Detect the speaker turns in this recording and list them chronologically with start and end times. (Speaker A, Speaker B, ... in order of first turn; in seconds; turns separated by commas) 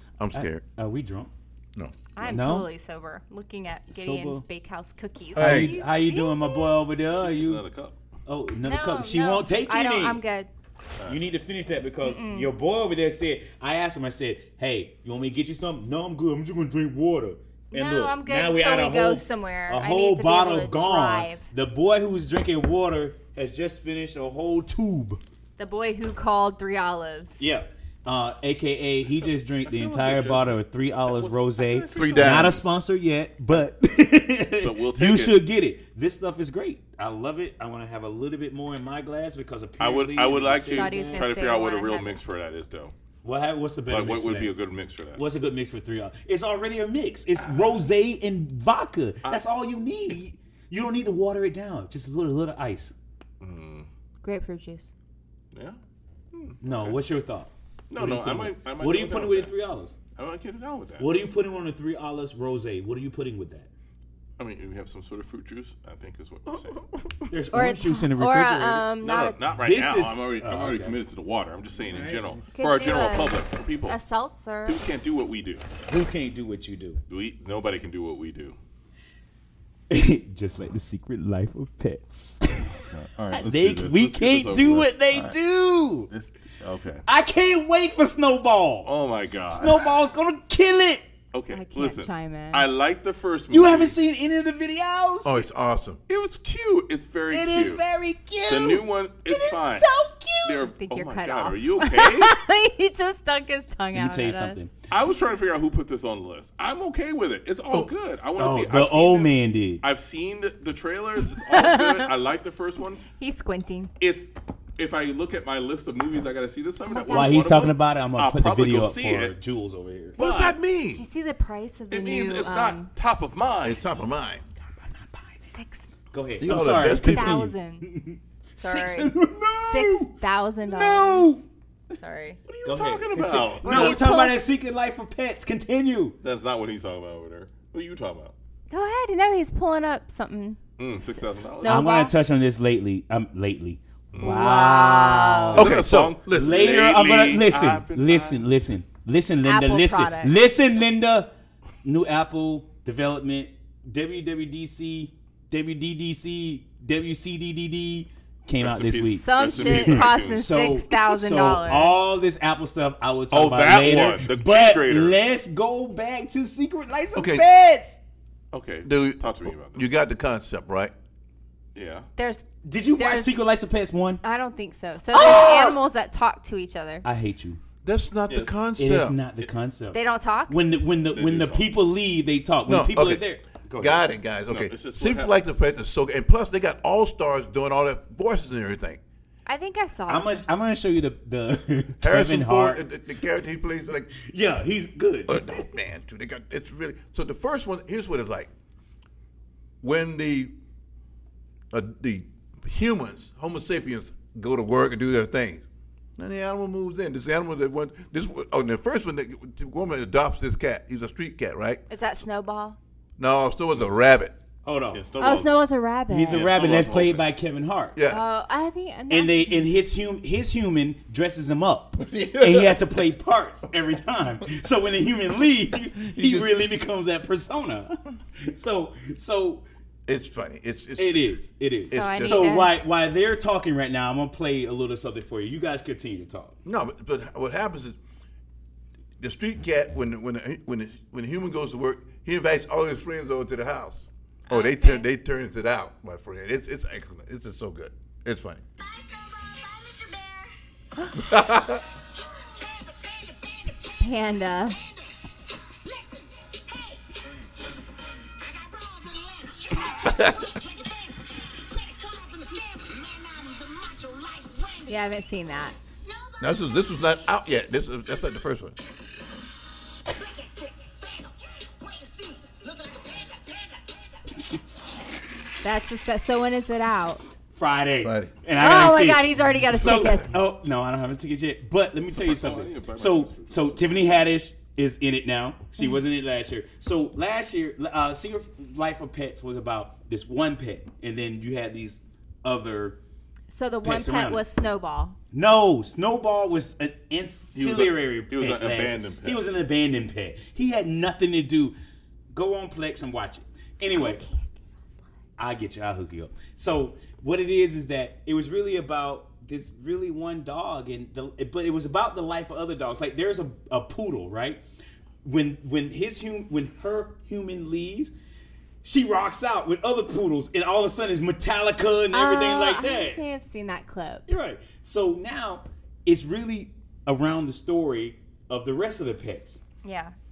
Speaker A: 0.2-0.6, Speaker B: 0.3-1.3, Speaker C: 2.1-6.8, Speaker B: 2.2-2.7, Speaker B: 3.9-4.4, Speaker A: 5.3-5.8, Speaker B: 5.3-7.6, Speaker D: 7.1-8.0, Speaker B: 8.2-10.2, Speaker C: 8.6-10.5, Speaker B: 11.1-25.2, Speaker C: 12.0-12.5, Speaker C: 17.7-21.4, Speaker C: 25.6-27.5, Speaker B: 27.4-41.3, Speaker D: 29.7-32.5, Speaker A: 31.9-32.6, Speaker D: 34.6-35.4, Speaker D: 39.8-42.9, Speaker C: 40.7-42.3, Speaker B: 43.2-44.5, Speaker D: 43.9-45.2, Speaker B: 45.2-52.9, Speaker D: 53.4-53.9, Speaker C: 54.2-54.9, Speaker D: 55.5-55.8, Speaker D: 56.3-57.0, Speaker B: 56.6-59.9, Speaker D: 57.9-59.5, Speaker D: 60.1-61.2, Speaker B: 61.0-63.7, Speaker D: 64.4-66.8, Speaker A: 66.5-67.3, Speaker B: 67.3-68.9, Speaker C: 67.5-69.4, Speaker D: 69.0-74.0, Speaker B: 69.6-71.0, Speaker B: 71.8-72.4, Speaker C: 72.5-74.8, Speaker D: 74.6-75.6, Speaker B: 75.9-77.0, Speaker D: 77.1-78.6, Speaker B: 79.9-86.1, Speaker D: 82.8-85.4, Speaker D: 86.1-87.0, Speaker B: 87.0-88.9, Speaker D: 88.8-89.9, Speaker B: 89.5-91.0, Speaker D: 91.3-94.0, Speaker C: 91.5-92.7, Speaker B: 93.5-95.4, Speaker A: 95.2-96.0, Speaker D: 96.1-97.8, Speaker B: 97.3-100.6, Speaker D: 98.5-99.9, Speaker D: 100.4-102.3, Speaker C: 100.6-104.6, Speaker B: 103.9-104.7, Speaker D: 104.9-113.0, Speaker B: 108.4-109.8, Speaker C: 111.4-112.1, Speaker C: 113.0-113.9, Speaker D: 114.0-119.3, Speaker C: 116.8-117.5, Speaker B: 117.1-120.2, Speaker D: 120.2-120.6, Speaker A: 120.2-121.0, Speaker C: 120.9-122.9, Speaker D: 121.9-123.8, Speaker A: 123.6-124.4, Speaker B: 124.8-125.5, Speaker C: 125.5-127.8, Speaker B: 126.1-130.1, Speaker A: 126.4-127.4, Speaker C: 128.6-132.4, Speaker B: 130.7-131.4, Speaker D: 132.5-134.0, Speaker B: 132.6-136.2, Speaker C: 133.6-134.4, Speaker D: 136.2-138.3, Speaker C: 138.7-140.6, Speaker D: 140.8-141.8, Speaker C: 141.1-142.1, Speaker B: 141.6-145.7, Speaker D: 144.1-144.4, Speaker C: 144.2-145.7, Speaker A: 145.5-146.7, Speaker D: 145.5-148.4, Speaker B: 146.3-151.3, Speaker C: 149.4-150.3, Speaker B: 151.8-168.0, Speaker D: 158.6-160.5, Speaker C: 159.2-162.0, Speaker D: 163.3-165.2, Speaker A: 167.1-167.4, Speaker D: 168.5-169.9, Speaker A: 168.8-170.9, Speaker D: 171.7-172.1, Speaker C: 172.2-173.4, Speaker B: 172.6-174.2, Speaker C: 174.2-177.0, Speaker B: 175.1-175.8, Speaker B: 177.0-177.6, Speaker A: 177.8-179.2, Speaker B: 178.8-180.0, Speaker C: 179.9-180.6, Speaker B: 180.5-184.0, Speaker D: 181.1-181.7, Speaker A: 182.7-183.2, Speaker A: 183.8-189.0, Speaker D: 184.5-185.5, Speaker C: 189.4-190.5, Speaker B: 190.1-192.9, Speaker A: 192.0-194.1, Speaker B: 194.1-195.5, Speaker A: 195.3-198.5, Speaker A: 199.8-200.5, Speaker A: 201.7-205.6, Speaker A: 206.2-211.8, Speaker C: 211.9-212.8, Speaker A: 213.2-214.3, Speaker B: 214.6-215.0, Speaker D: 214.9-217.2, Speaker C: 215.2-216.4, Speaker B: 216.1-218.0, Speaker A: 217.9-218.2, Speaker C: 218.1-219.7, Speaker B: 219.1-229.6, Speaker A: 222.0-223.0, Speaker A: 226.0-226.5, Speaker A: 230.1-232.6, Speaker B: 231.0-236.5, Speaker C: 231.9-232.8, Speaker A: 236.6-238.0, Speaker A: 239.2-248.6, Speaker C: 244.5-245.0, Speaker E: 248.8-250.5, Speaker A: 251.2-251.8, Speaker E: 251.7-254.0, Speaker C: 254.0-254.8, Speaker E: 255.8-265.2, Speaker C: 264.9-265.8, Speaker E: 266.0-266.5, Speaker A: 266.4-268.7, Speaker E: 270.1-274.0, Speaker C: 275.6-277.2, Speaker B: 277.5-293.0, Speaker A: 278.0-278.3, Speaker C: 278.5-280.4, Speaker D: 282.1-284.0, Speaker C: 293.5-295.2, Speaker B: 293.8-294.4, Speaker B: 295.3-301.7, Speaker D: 297.5-299.5, Speaker B: 302.3-304.2, Speaker C: 303.9-304.4, Speaker B: 305.4-314.6, Speaker B: 315.2-318.1, Speaker B: 318.8-323.2, Speaker C: 322.1-324.2, Speaker B: 324.3-329.6, Speaker C: 329.8-330.1